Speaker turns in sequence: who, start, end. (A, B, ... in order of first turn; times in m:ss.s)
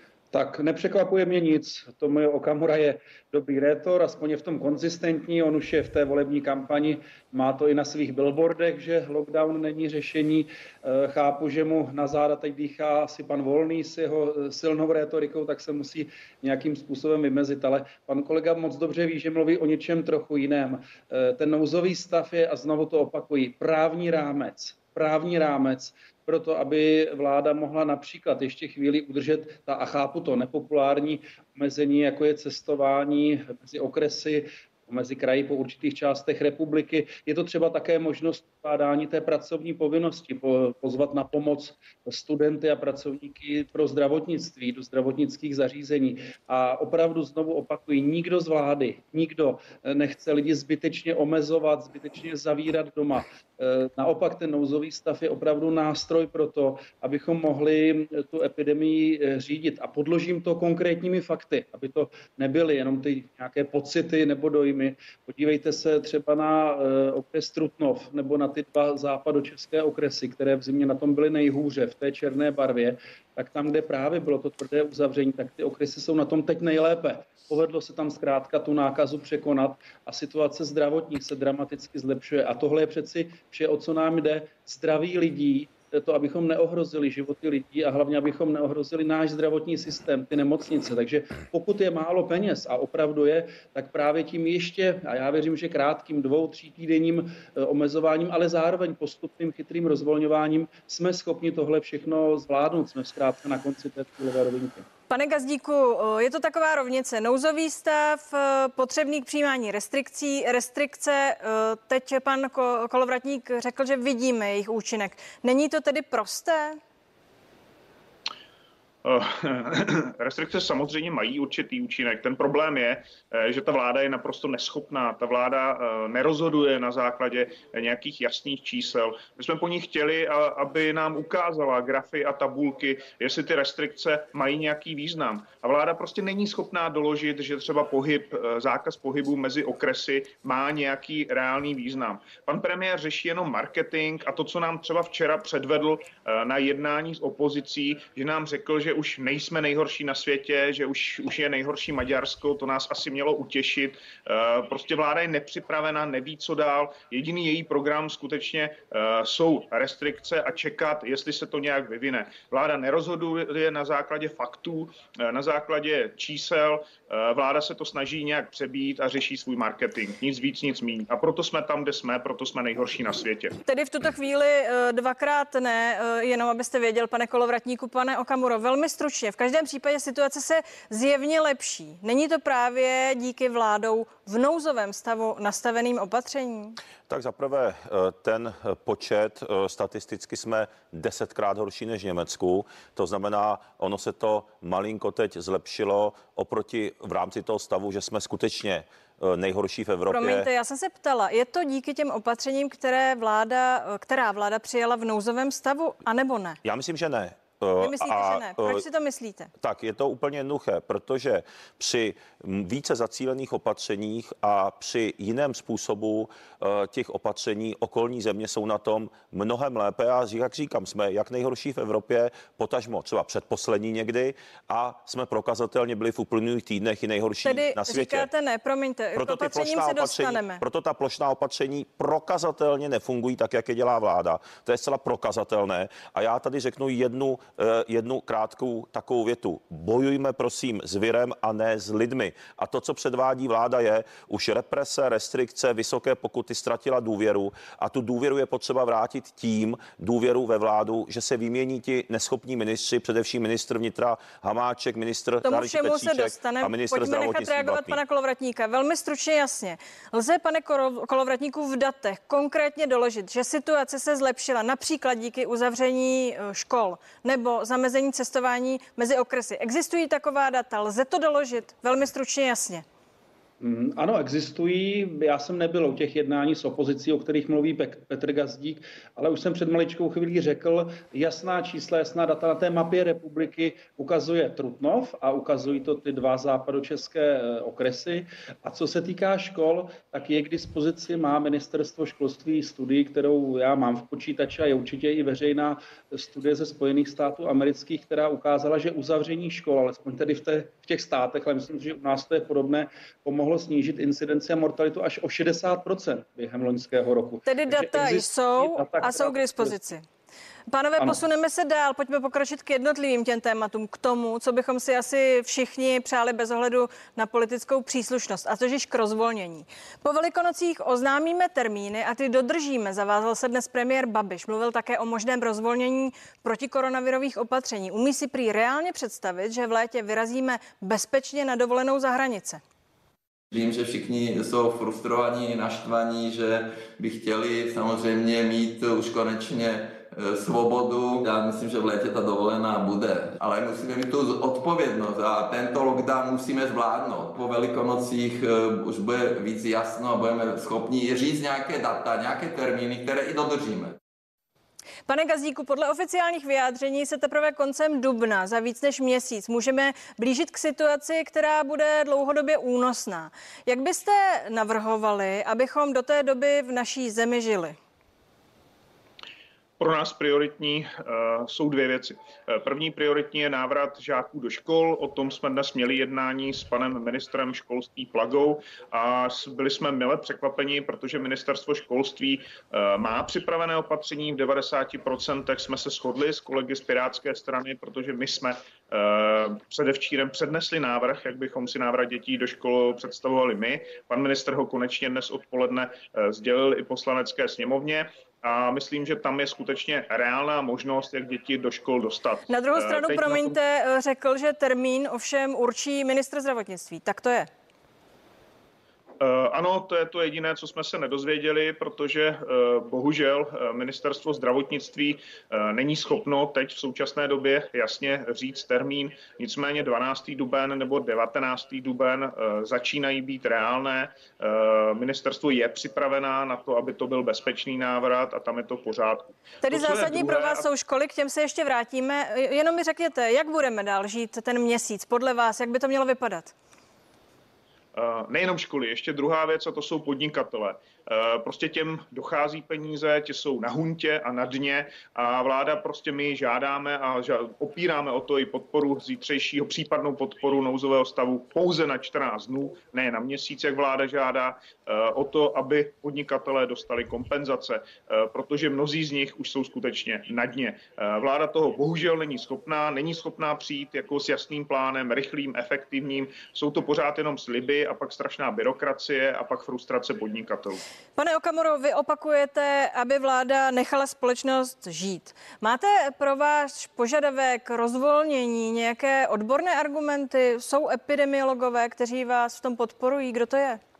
0:00.3-1:44.9 A
1:45.1-1:56.8 B
1:59.0-2:53.6 C
2:53.7-3:06.8 B
3:07.1-3:20.5 D
3:20.1-3:26.6 B
3:26.6-3:28.8 D
3:27.8-3:29.5 B
3:29.6-3:48.3 D
3:47.4-3:50.6 B
3:49.2-4:18.0 D
4:15.4-4:32.8 B
4:33.6-5:09.8 A
5:07.4-5:10.0 B
5:10.7-5:32.6 B
5:33.5-5:54.0 E
5:55.1-6:07.8 B
6:09.8-6:43.6 C
6:42.5-6:47.5 B
6:49.2-7:10.6 C
7:09.6-7:16.5 B
7:17.9-7:50.8 C
7:51.2-8:03.8 B